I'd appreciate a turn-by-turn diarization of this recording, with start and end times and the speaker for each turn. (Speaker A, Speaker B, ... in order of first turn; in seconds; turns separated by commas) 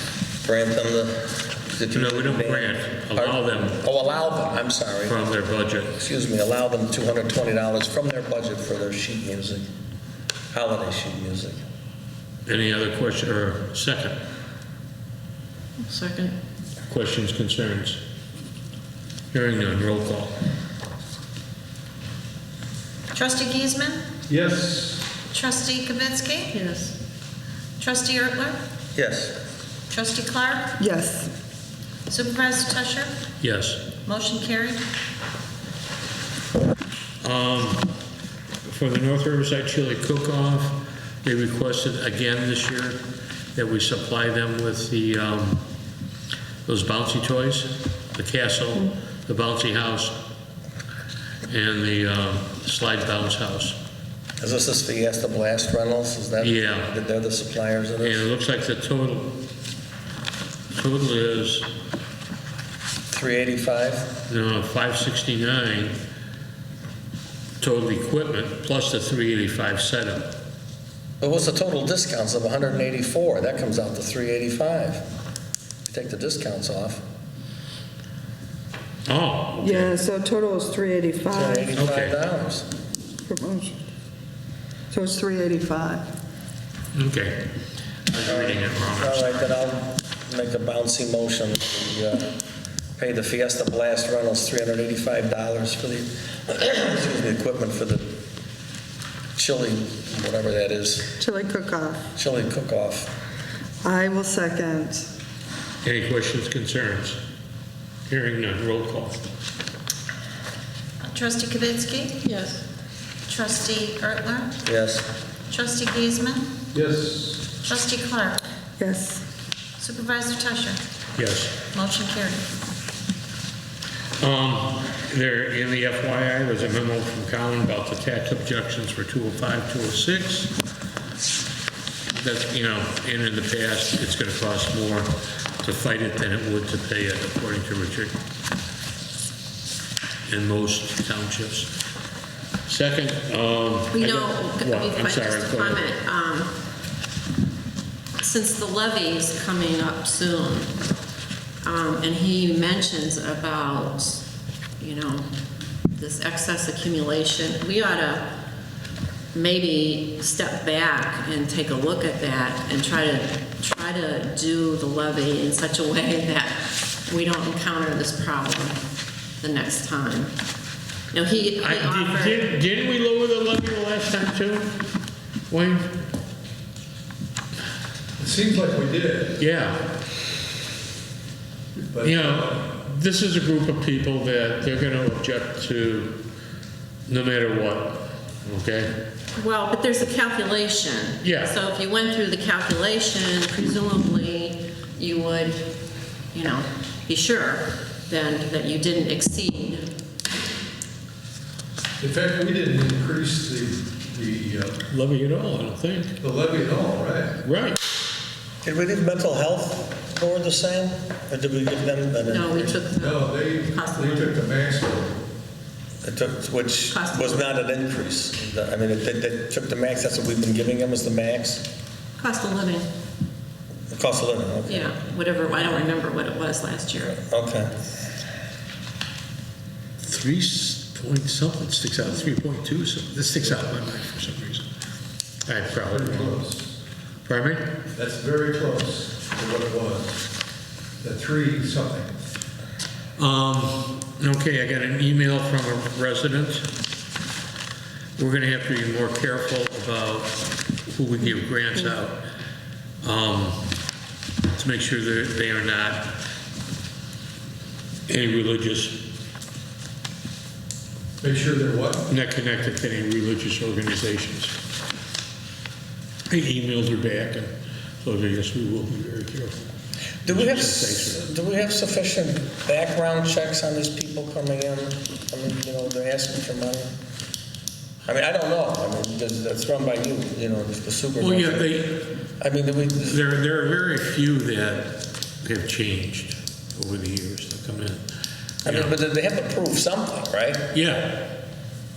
Speaker A: 0.4-5.2, Speaker B: 1.9-3.8, Speaker B: 5.0-6.0, Speaker A: 6.0-9.6, Speaker A: 10.5-11.6, Speaker B: 12.4-14.2, Speaker C: 15.8-16.3, Speaker B: 16.9-18.0, Speaker B: 19.3-20.4, Speaker D: 23.1-24.0, Speaker E: 24.3-25.1, Speaker D: 25.3-26.6, Speaker C: 26.5-26.9, Speaker D: 27.8-28.6, Speaker A: 28.9-29.3, Speaker D: 29.9-30.7, Speaker F: 30.8-31.3, Speaker D: 32.1-33.1, Speaker B: 33.4-33.9, Speaker D: 34.0-34.8, Speaker B: 37.2-37.9, Speaker B: 38.6-43.0, Speaker B: 43.5-45.6, Speaker B: 46.6-50.2, Speaker B: 51.5-53.8, Speaker A: 54.4-58.2, Speaker B: 56.4-56.9, Speaker B: 58.0-59.4, Speaker B: 60.7-61.7, Speaker A: 63.1-64.1, Speaker B: 64.3-66.0, Speaker B: 67.6-70.3, Speaker A: 71.2-75.0, Speaker A: 75.9-77.0, Speaker B: 79.0-79.9, Speaker F: 79.6-81.7, Speaker A: 81.3-82.6, Speaker B: 81.7-82.2, Speaker F: 83.3-83.8, Speaker F: 84.9-86.0, Speaker B: 86.9-87.5, Speaker B: 88.1-89.5, Speaker A: 88.2-92.3, Speaker A: 93.0-98.1, Speaker A: 99.4-101.1, Speaker F: 101.2-102.0, Speaker A: 102.2-103.1, Speaker F: 103.8-105.1, Speaker B: 105.8-107.2, Speaker B: 108.1-109.2, Speaker D: 111.0-112.2, Speaker C: 112.2-112.6, Speaker D: 113.3-114.5, Speaker A: 114.6-115.0, Speaker D: 115.5-116.5, Speaker E: 116.7-117.5, Speaker D: 117.7-118.4, Speaker F: 118.8-119.2, Speaker D: 119.8-120.8, Speaker B: 121.2-121.5, Speaker D: 121.7-122.4, Speaker B: 124.2-130.5, Speaker B: 132.1-138.2, Speaker B: 140.3-141.7, Speaker B: 142.7-145.8, Speaker C: 143.9-146.5, Speaker C: 148.2-150.7, Speaker C: 151.6-154.2, Speaker C: 154.8-155.3, Speaker C: 155.9-158.3, Speaker C: 159.3-168.8, Speaker C: 169.4-170.3, Speaker C: 171.1-172.5, Speaker B: 171.6-174.8, Speaker B: 175.5-175.9, Speaker E: 178.2-179.4, Speaker B: 179.4-179.8, Speaker E: 181.9-182.7, Speaker B: 182.0-186.2, Speaker B: 187.1-189.0, Speaker C: 189.3-195.7, Speaker B: 191.2-191.5, Speaker C: 196.3-199.9, Speaker E: 202.0-204.8, Speaker B: 204.9-206.1, Speaker E: 206.2-207.4, Speaker B: 207.4-207.8, Speaker A: 208.6-212.8, Speaker C: 212.3-214.3, Speaker E: 212.9-215.2, Speaker A: 216.0-221.6, Speaker C: 216.9-217.6, Speaker C: 222.2-222.9, Speaker A: 223.9-224.9, Speaker C: 224.7-227.2, Speaker A: 227.1-227.7, Speaker B: 230.0-234.7, Speaker E: 233.3-233.7, Speaker B: 235.4-236.4, Speaker E: 235.8-236.8, Speaker B: 237.2-237.7, Speaker E: 237.9-240.3, Speaker E: 241.0-242.2, Speaker B: 243.2-246.7, Speaker B: 248.2-252.2, Speaker B: 253.0-253.7, Speaker B: 254.5-256.1, Speaker B: 258.1-259.0, Speaker E: 261.2-262.1, Speaker B: 262.1-264.6, Speaker B: 266.3-267.5, Speaker B: 268.0-269.6, Speaker A: 270.2-276.9, Speaker B: 270.2-271.2, Speaker A: 278.1-281.7, Speaker B: 281.2-282.1, Speaker A: 282.4-283.2, Speaker B: 283.0-288.0, Speaker A: 288.6-290.7, Speaker B: 288.6-288.9, Speaker B: 290.7-291.2